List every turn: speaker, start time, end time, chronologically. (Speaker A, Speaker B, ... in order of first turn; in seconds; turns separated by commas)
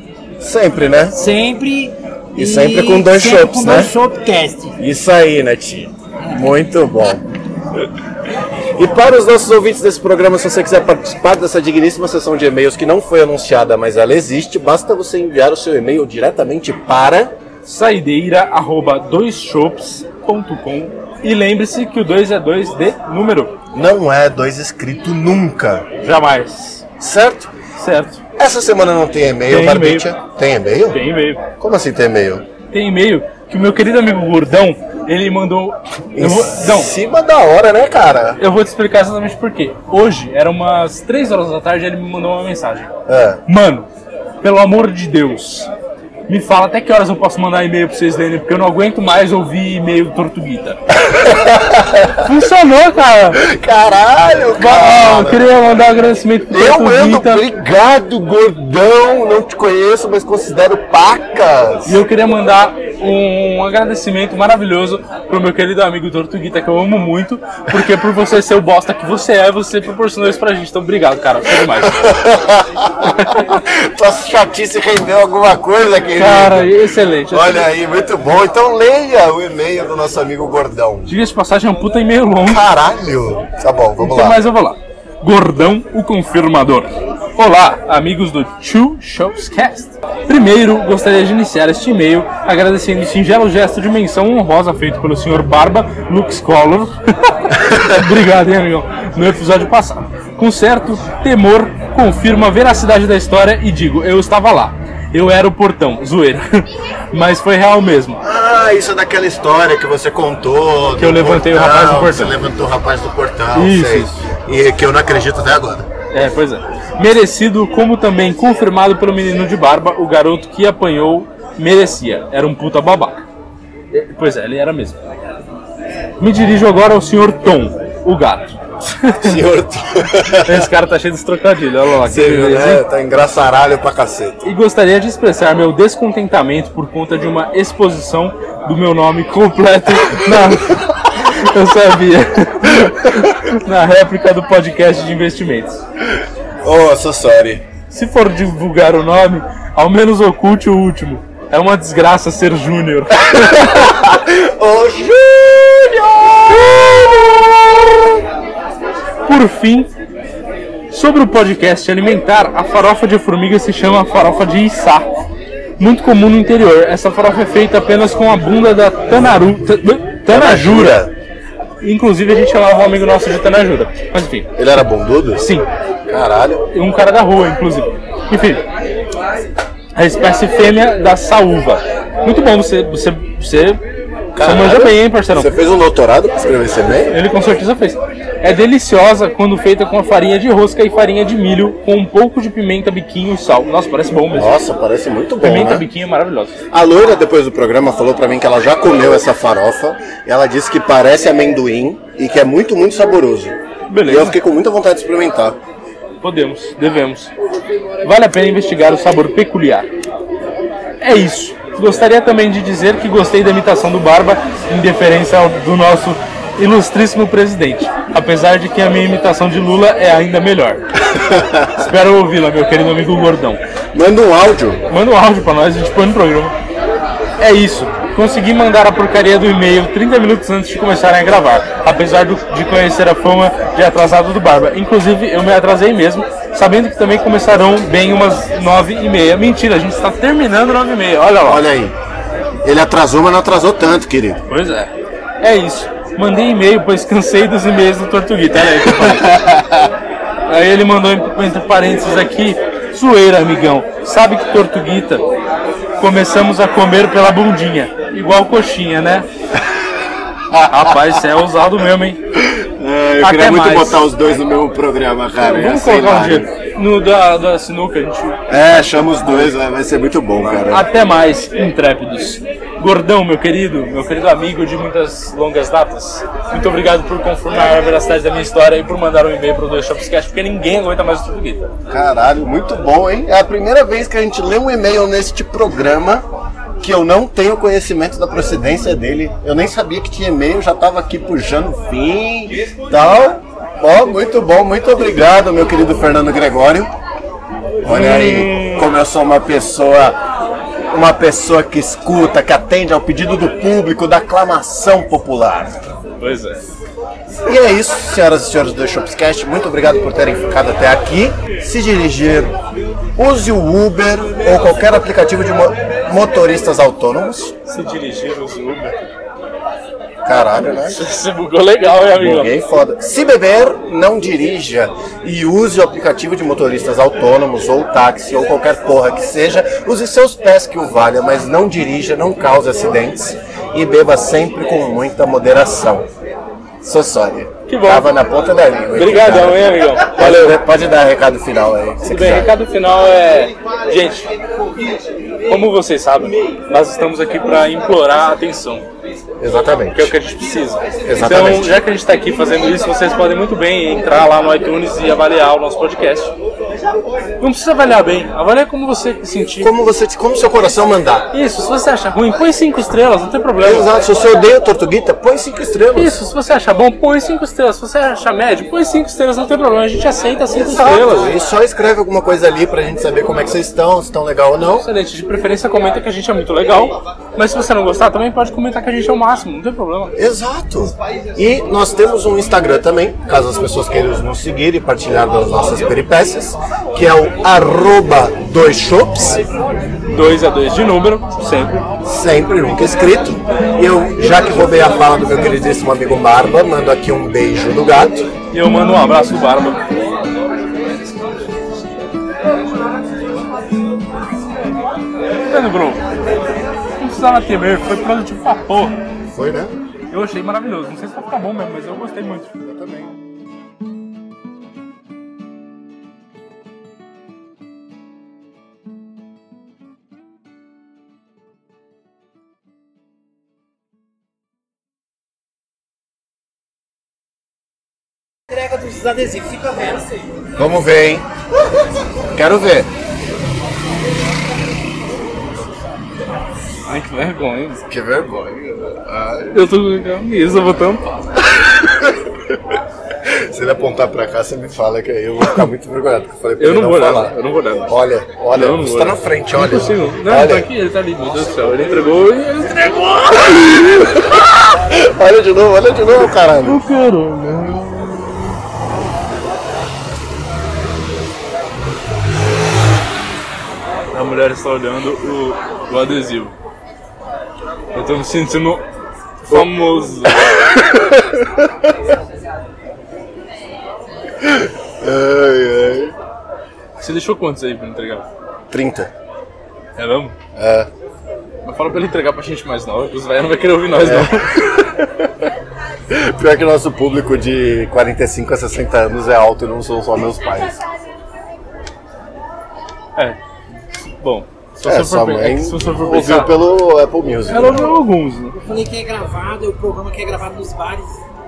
Speaker A: 0.4-1.2, Speaker B: 1.1-4.8, Speaker A: 2.4-3.9, Speaker A: 4.8-7.2, Speaker A: 8.8-17.3, Speaker C: 17.6-23.6, Speaker A: 23.7-25.9, Speaker C: 26.0-26.8, Speaker A: 27.0-27.5, Speaker C: 27.8-28.2, Speaker A: 28.4-31.0, Speaker C: 29.5-30.1, Speaker C: 30.9-31.4, Speaker A: 31.6-32.5, Speaker C: 32.7-36.9, Speaker A: 36.2-38.4, Speaker C: 38.4-42.9, Speaker A: 43.1-43.4, Speaker C: 43.5-43.9, Speaker C: 44.4-45.7, Speaker C: 46.3-50.8, Speaker A: 51.0-52.3, Speaker C: 52.2-53.4, Speaker A: 53.3-55.5, Speaker C: 54.6-57.4, Speaker A: 56.5-62.0, Speaker C: 61.9-72.1, Speaker A: 71.6-76.8, Speaker C: 73.1-73.6, Speaker C: 76.2-77.7, Speaker A: 77.3-81.1, Speaker C: 81.1-82.6, Speaker A: 82.4-84.4, Speaker C: 84.0-108.2, Speaker A: 108.2-115.9, Speaker C: 111.0-112.4, Speaker C: 113.5-114.1, Speaker C: 116.1-123.2, Speaker C: 123.9-125.0, Speaker C: 126.2-129.4, Speaker A: 129.2-130.7, Speaker C: 130.3-132.8, Speaker A: 132.0-134.5, Speaker C: 134.4-145.8, Speaker A: 146.1-147.7, Speaker C: 147.9-153.9, Speaker A: 153.3-158.2, Speaker C: 159.3-159.9, Speaker C: 160.9-165.1, Speaker C: 165.8-171.1, Speaker A: 170.3-171.1, Speaker C: 171.8-174.5, Speaker A: 174.6-175.5, Speaker C: 175.4-175.7, Speaker A: 176.1-176.7, Speaker C: 176.7-178.7, Speaker C: 180.0-183.8, Speaker A: 184.4-187.2, Speaker C: 184.4-185.5, Speaker C: 187.1-194.6, Speaker A: 194.3-195.9, Speaker C: 195.4-196.6, Speaker A: 196.7-205.6, Speaker C: 203.9-204.4, Speaker C: 206.2-207.3, Speaker C: 208.0-209.9, Speaker C: 211.0-220.8, Speaker A: 221.1-221.9, Speaker C: 221.7-223.6, Speaker A: 223.9-224.9, Speaker C: 224.9-226.6, Speaker C: 227.4-241.7, Speaker A: 241.4-242.0, Speaker A: 242.7-244.4, Speaker C: 244.5-249.4, Speaker A: 248.6-249.9, Speaker C: 250.5-255.3, Speaker C: 256.0-259.3, Speaker A: 260.5-261.2, Speaker C: 260.7-262.2, Speaker A: 262.3-266.5, Speaker C: 263.2-264.1, Speaker C: 265.5-269.5, Speaker A: 268.5-270.9, Speaker C: 270.4-281.7, Speaker A: 281.9-286.3, Speaker A: 286.8-296.9, Speaker A: 297.8-300.2, Speaker C: 297.8-298.9, Speaker A: 300.9-305.8, Speaker C: 306.2-306.6, Speaker A: 307.5-312.5, Speaker A: 313.2-317.6, Speaker C: 317.7-319.0, Speaker A: 320.2-321.0, Speaker C: 320.9-322.6, Speaker A: 322.2-336.1, Speaker A: 336.8-342.5, Speaker C: 337.7-338.1, Speaker C: 338.9-340.6, Speaker C: 342.0-344.3, Speaker C: 345.5-348.9, Speaker A: 349.4-350.1, Speaker C: 349.9-356.3, Speaker A: 351.1-351.8, Speaker C: 357.4-359.8, Speaker A: 359.6-361.3, Speaker C: 361.3-363.9, Speaker A: 363.6-366.2, Speaker C: 365.9-371.3, Speaker A: 370.5-374.9, Speaker C: 374.8-380.2, Speaker A: 380.2-389.4, Speaker C: 390.1-391.8, Speaker A: 392.0-398.3, Speaker C: 398.5-399.9, Speaker C: 405.5-406.1, Speaker C: 407.0-409.0, Speaker A: 409.3-409.7, Speaker C: 410.1-412.5, Speaker A: 412.7-413.1, Speaker B: 428.7-429.9, Speaker A: 430.6-431.2, Speaker A: 432.3-432.9, Speaker C: 436.9-437.8, Speaker A: 437.9-439.6, Speaker C: 439.5-441.4, Speaker A: 441.4-447.3, Speaker C: 446.6-447.9, Speaker A: 447.9-450.7, Speaker C: 448.5-454.1, Speaker A: 453.5-456.8, Speaker C: 456.6-458.2, Speaker C: 464.1-466.5, Speaker C: 467.9-468.9, Speaker C: 469.4-470.5, Speaker A: 470.5-471.9, Speaker A: 474.4-476.1, Speaker C: 477.0-478.3, Speaker A: 478.7-479.1, Speaker C: 480.0-480.4, Speaker A: 480.6-480.9, Speaker C: 481.6-484.7, Speaker A: 484.0-485.5, Speaker A: 486.1-490.8, Speaker C: 493.9-496.5, Speaker A: 494.8-498.0, Speaker C: 497.5-498.6, Speaker B: 498.6-501.2